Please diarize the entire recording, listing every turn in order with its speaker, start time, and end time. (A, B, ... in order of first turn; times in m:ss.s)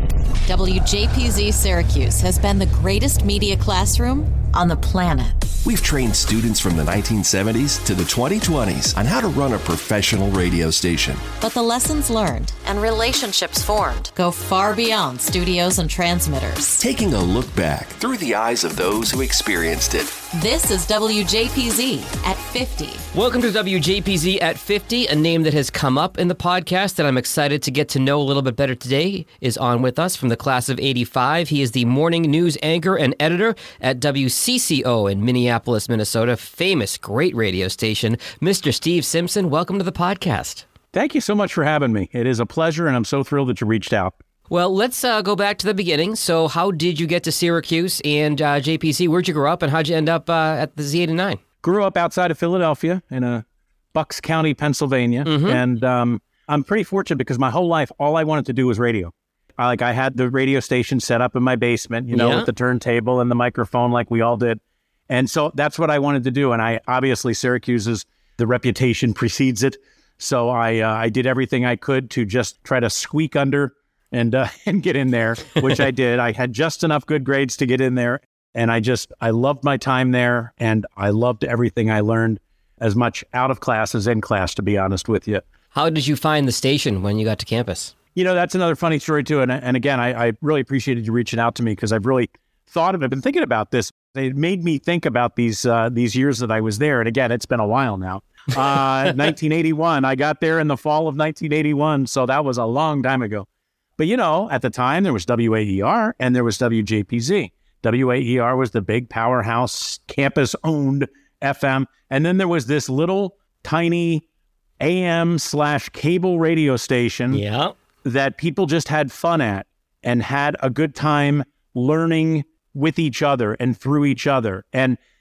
0:00.5-0:05.4 A
0:05.6-0:11.3 B
0:11.4-0:16.8 A
0:16.8-0:20.1 B
0:20.3-0:23.1 A
0:23.1-0:40.7 C
0:40.9-0:44.2 D
0:44.5-0:51.4 C
0:51.6-1:25.4 D
0:55.2-0:55.6 C
1:02.1-1:02.5 C
1:25.7-1:27.9 C
1:28.2-1:43.5 D
1:44.0-1:54.2 D
1:54.8-1:57.4 D
1:57.3-1:57.7 C
1:58.0-2:05.0 D